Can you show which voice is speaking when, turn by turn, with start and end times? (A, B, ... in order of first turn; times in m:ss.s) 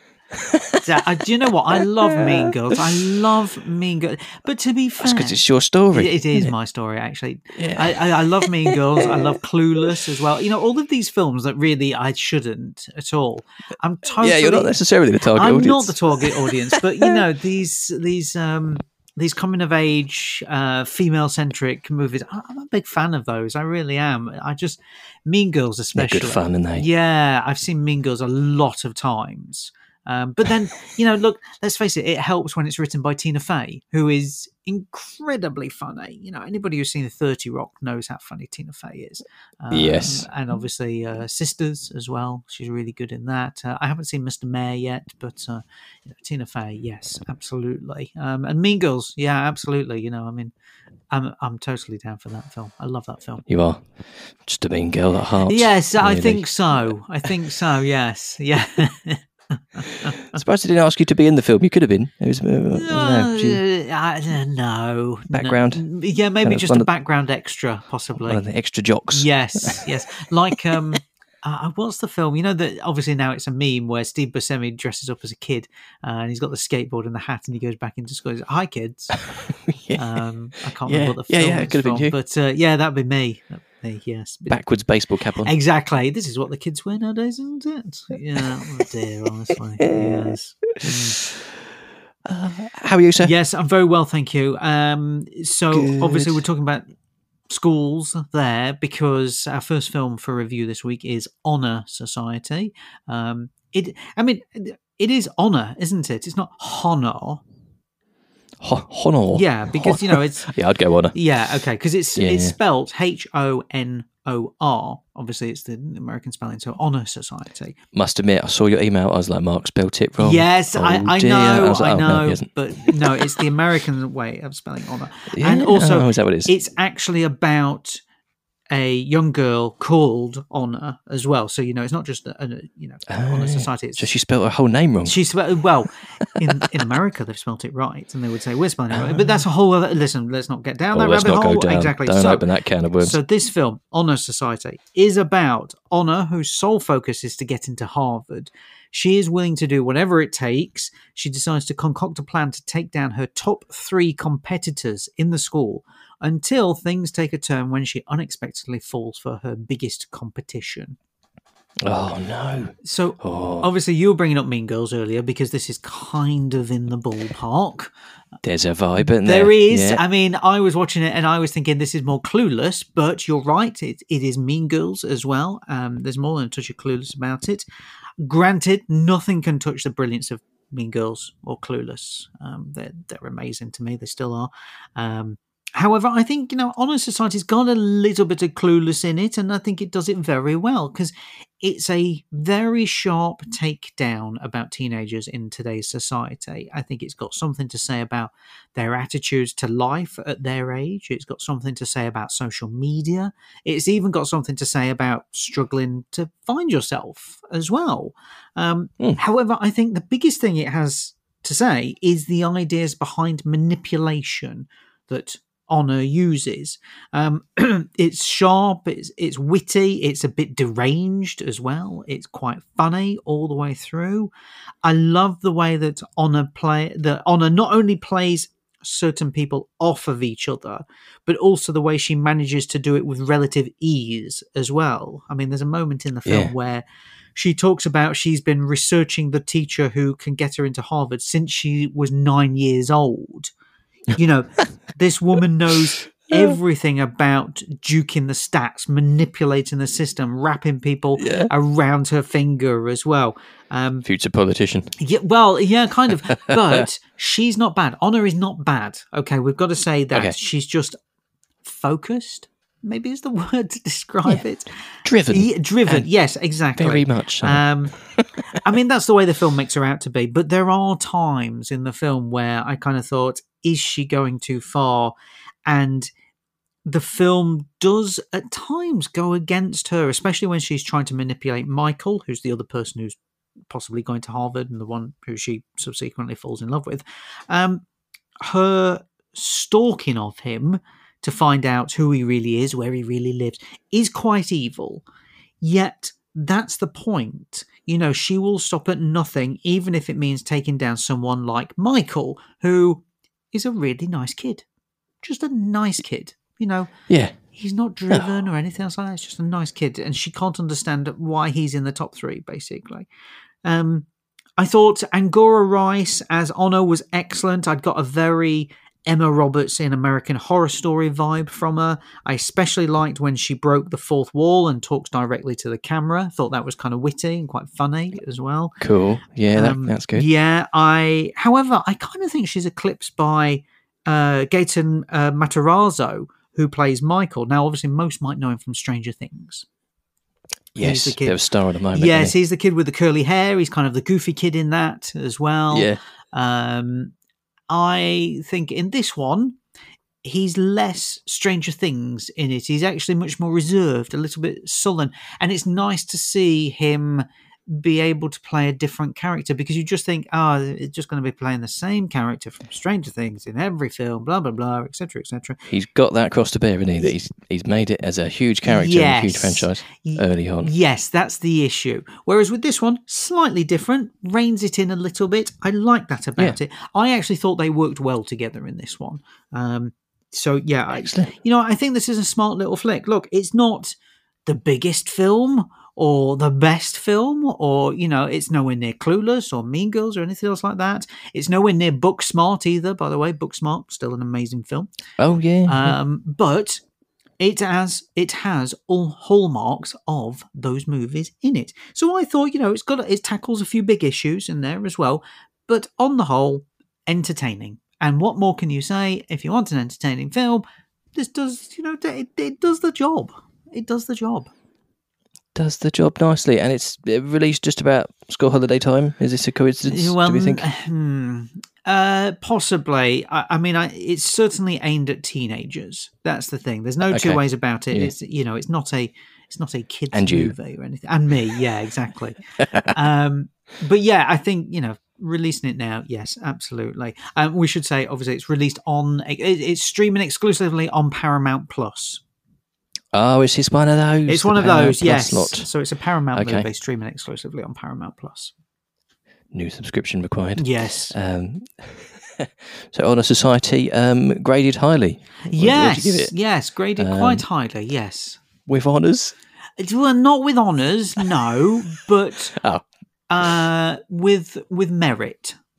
0:00.3-0:00.8 A
0:00.8-0:14.8 B
0:02.0-0:02.8 A
0:05.0-0:06.5 A
0:07.6-0:09.3 A
0:14.2-0:16.8 A
0:15.3-0:50.5 B
0:26.0-0:26.8 A
0:39.7-0:40.3 A
0:51.1-0:53.5 B
0:53.5-0:56.9 A
0:55.5-1:00.4 B
1:00.3-1:03.6 A
1:02.7-1:08.4 B
1:05.3-1:05.9 A
1:06.4-1:06.9 A
1:08.3-1:09.9 A
1:09.1-1:19.2 B
1:19.5-1:20.0 A
1:20.0-1:24.6 B
1:20.8-1:22.2 A
1:24.5-1:25.5 A
1:25.4-1:31.2 B
1:29.9-1:31.3 A
1:32.3-1:33.3 A
1:33.2-1:36.9 B
1:35.7-1:36.4 A
1:37.5-1:47.4 B
1:48.6-1:51.2 A
1:49.3-1:50.5 B
1:51.1-1:57.8 B
1:52.2-1:52.6 A
1:57.9-2:03.4 A
2:00.2-2:08.0 B
2:05.3-2:06.5 A
2:08.7-2:14.1 B
2:13.1-2:15.2 A
2:15.0-2:22.5 B
2:18.9-2:19.4 A
2:20.9-2:23.2 A
2:23.0-2:41.0 B
2:41.8-2:43.7 A
2:42.8-2:47.9 B
2:48.4-2:50.0 A
2:49.0-2:57.6 B
2:58.2-3:44.3 B
3:44.8-4:03.5 B
3:56.2-3:56.5 A
4:04.1-4:14.0 B
4:06.3-4:06.6 A
4:11.2-4:11.5 A
4:14.0-4:15.0 A
4:15.0-4:21.0 B
4:21.6-4:24.7 B
4:25.0-4:26.1 A
4:25.3-4:28.0 B
4:26.8-4:28.3 A
4:28.5-4:35.2 B
4:35.7-4:36.1 B
4:36.8-4:43.2 B
4:43.7-4:47.8 B
4:48.4-4:55.0 B
4:55.6-5:04.6 B
5:05.2-5:13.1 B
5:07.1-5:07.4 A
5:13.6-5:14.1 B
5:14.6-5:28.8 B
5:28.8-5:30.3 A
5:29.5-5:39.7 B
5:40.8-5:42.4 A
5:40.8-5:41.4 B
5:41.9-5:47.1 B
5:45.7-5:46.0 A
5:47.7-5:49.6 B
5:50.2-6:05.6 B
6:05.7-6:10.7 A
6:08.6-6:34.9 B
6:20.9-6:21.4 A
6:35.2-6:36.0 A
6:35.6-6:36.8 B
6:37.4-6:50.6 B
6:51.2-6:54.5 B
6:55.6-7:00.6 A
6:59.9-7:22.2 B
7:07.1-7:08.1 A
7:10.1-7:10.6 A
7:23.1-7:25.7 A
7:24.3-7:28.5 B
7:26.3-7:26.7 A
7:29.5-7:36.4 A
7:30.6-7:31.2 B
7:35.5-7:38.4 B
7:37.0-7:37.4 A
7:38.7-7:39.4 A
7:39.8-7:42.6 B
7:42.6-7:42.8 A
7:43.3-7:45.6 B